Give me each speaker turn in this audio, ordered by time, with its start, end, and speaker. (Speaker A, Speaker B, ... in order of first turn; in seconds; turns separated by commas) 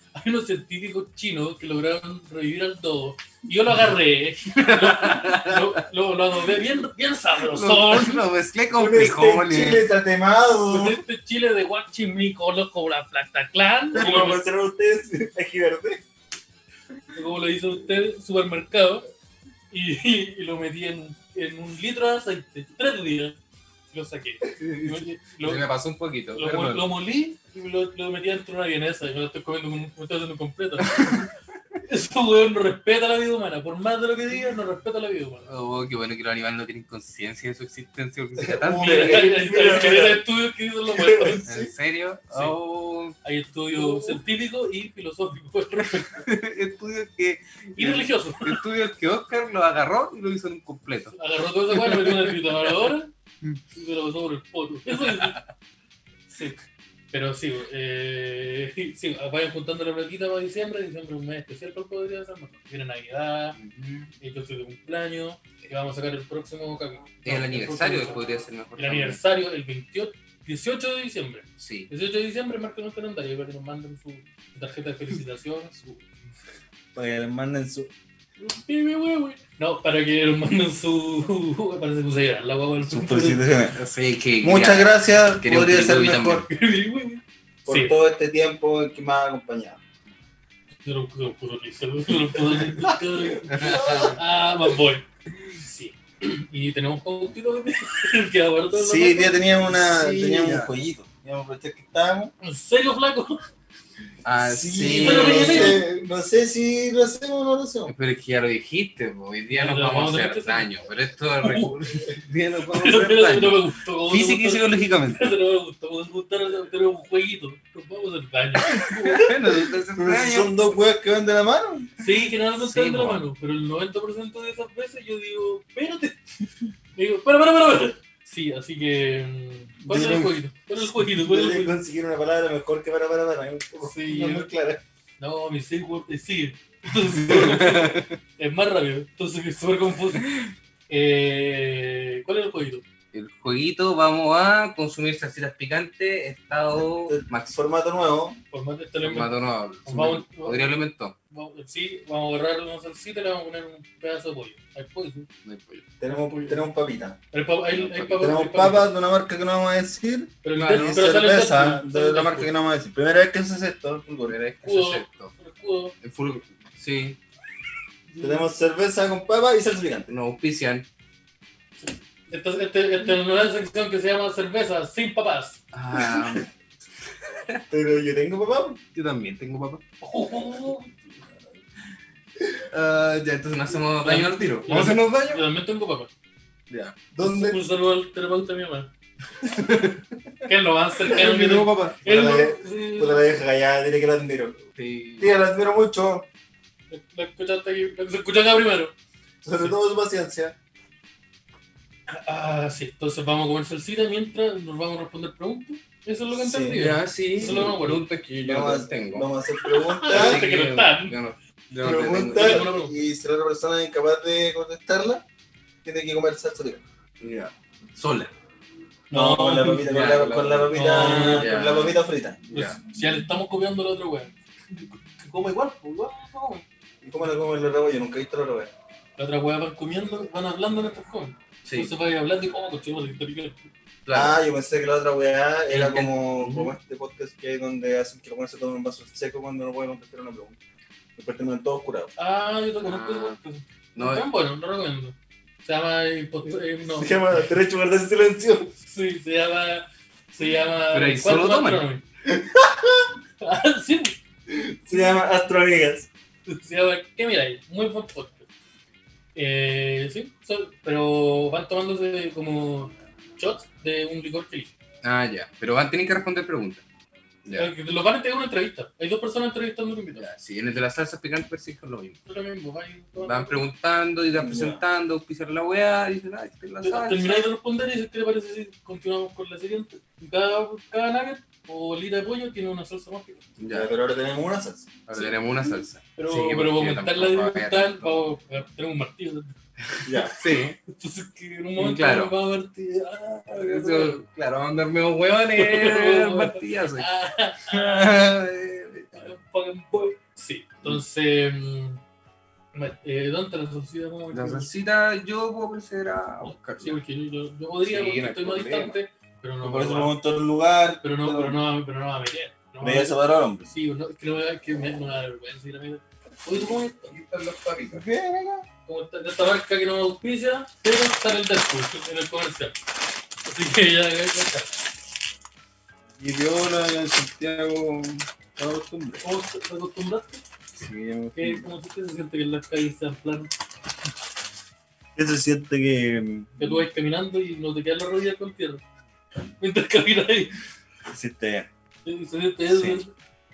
Speaker A: 0.1-8.2, Speaker B: 4.6-5.8, Speaker B: 7.4-9.9, Speaker C: 8.7-11.0, Speaker A: 10.7-14.4, Speaker C: 13.9-16.0, Speaker A: 17.1-19.1, Speaker A: 19.7-23.4, Speaker A: 23.9-25.6, Speaker B: 24.6-26.9, Speaker A: 26.3-31.2, Speaker A: 31.8-35.5, Speaker B: 35.5-39.3, Speaker C: 38.4-40.2, Speaker A: 38.7-41.5, Speaker C: 40.9-41.7, Speaker B: 41.5-43.1, Speaker A: 43.2-46.3, Speaker B: 43.9-44.1, Speaker B: 46.0-51.1, Speaker A: 47.8-48.6, Speaker A: 51.1-53.1, Speaker B: 51.7-52.9, Speaker A: 53.7-55.4, Speaker B: 55.0-55.4, Speaker A: 56.3-56.6, Speaker A: 57.1-63.6, Speaker B: 63.6-64.1, Speaker A: 64.2-68.2, Speaker B: 67.2-69.2, Speaker A: 68.8-75.9, Speaker B: 71.6-71.9, Speaker C: 76.9-77.9, Speaker A: 78.4-83.4, Speaker C: 82.8-83.8, Speaker B: 83.7-86.5, Speaker C: 84.4-86.5, Speaker A: 86.5-87.9, Speaker C: 87.6-89.8, Speaker A: 90.8-100.5, Speaker C: 92.4-94.1, Speaker B: 93.5-94.1, Speaker C: 98.7-102.3, Speaker B: 100.1-100.7, Speaker A: 102.4-103.4, Speaker B: 104.2-105.8, Speaker C: 104.4-107.9, Speaker A: 104.9-105.8, Speaker B: 107.9-115.3, Speaker A: 109.5-110.7, Speaker A: 111.4-111.8, Speaker A: 112.7-119.3, Speaker B: 118.7-120.6, Speaker C: 119.2-121.9, Speaker A: 122.0-126.2, Speaker B: 122.6-123.2, Speaker A: 127.0-131.7, Speaker C: 129.8-134.8, Speaker A: 133.8-134.5, Speaker A: 135.2-140.3, Speaker B: 137.3-138.2, Speaker A: 140.9-142.8, Speaker B: 143.1-147.5, Speaker C: 146.7-148.4, Speaker A: 148.5-149.3, Speaker B: 149.0-151.1, Speaker A: 149.8-150.7, Speaker A: 151.3-155.3, Speaker B: 155.4-155.8, Speaker C: 156.0-157.2, Speaker A: 156.1-156.7, Speaker A: 157.3-158.9, Speaker B: 157.7-158.3, Speaker C: 158.2-164.4, Speaker A: 160.4-162.5, Speaker B: 160.5-161.0, Speaker B: 164.2-165.3, Speaker A: 164.6-165.9, Speaker B: 166.0-167.2, Speaker A: 168.1-168.5, Speaker C: 168.2-170.1, Speaker B: 170.1-170.9, Speaker A: 171.8-175.6, Speaker B: 175.7-176.5, Speaker B: 177.2-177.6, Speaker C: 177.7-178.8, Speaker B: 178.9-179.8, Speaker A: 180.0-181.3, Speaker B: 182.6-185.4, Speaker A: 184.0-186.1, Speaker B: 186.7-187.0, Speaker C: 187.1-187.6, Speaker A: 187.2-188.9, Speaker B: 189.4-190.0, Speaker A: 190.4-193.3, Speaker B: 191.1-192.0, Speaker C: 191.1-194.6, Speaker B: 194.7-195.3, Speaker C: 195.2-196.3, Speaker A: 196.9-198.9, Speaker C: 199.4-200.6, Speaker A: 202.1-208.1, Speaker C: 206.3-206.8, Speaker B: 206.7-209.3, Speaker C: 208.4-210.4, Speaker A: 209.7-211.2, Speaker B: 210.1-212.7, Speaker C: 211.8-215.2, Speaker A: 212.3-212.9, Speaker C: 215.8-216.8, Speaker B: 217.2-218.3, Speaker A: 219.1-219.9, Speaker C: 219.1-222.4, Speaker B: 219.8-222.0, Speaker A: 220.7-221.5, Speaker B: 222.5-222.8, Speaker A: 222.5-226.6, Speaker C: 227.0-228.7, Speaker A: 229.2-233.7, Speaker B: 231.6-231.9, Speaker B: 234.0-234.4, Speaker C: 234.1-240.6, Speaker B: 235.7-236.7, Speaker C: 241.2-242.1, Speaker A: 242.2-247.5, Speaker B: 242.8-243.4, Speaker B: 243.9-244.3, Speaker C: 246.8-248.7, Speaker A: 248.8-252.0, Speaker B: 250.9-251.8, Speaker C: 252.2-253.1, Speaker A: 253.4-254.2, Speaker C: 254.5-256.1, Speaker A: 256.5-258.5, Speaker A: 259.3-264.7, Speaker B: 265.0-266.8, Speaker B: 267.4-267.7, Speaker A: 267.6-270.2, Speaker B: 270.1-272.2, Speaker A: 272.2-273.6, Speaker B: 273.2-277.5, Speaker C: 274.3-274.8, Speaker A: 276.8-283.4, Speaker B: 283.6-283.9, Speaker C: 283.7-284.9, Speaker B: 285.1-288.2, Speaker A: 286.1-289.5, Speaker C: 290.0-290.4, Speaker B: 290.3-290.8, Speaker A: 290.9-294.2, Speaker B: 291.8-292.3, Speaker B: 293.5-297.1, Speaker A: 295.6-298.1, Speaker B: 297.7-299.3, Speaker A: 299.1-302.0, Speaker A: 302.7-304.7, Speaker B: 304.3-307.0, Speaker A: 306.8-310.1, Speaker B: 307.8-308.9, Speaker C: 309.6-311.6, Speaker A: 311.0-317.1, Speaker C: 312.8-313.7, Speaker B: 317.1-318.0, Speaker C: 317.9-318.6, Speaker A: 318.9-322.8, Speaker A: 323.4-324.7, Speaker C: 326.2-329.2, Speaker A: 329.2-330.4, Speaker C: 330.8-331.6, Speaker A: 331.3-333.5, Speaker C: 335.1-336.6, Speaker A: 336.6-338.8, Speaker A: 339.6-340.5, Speaker C: 341.1-341.7, Speaker A: 342.0-343.1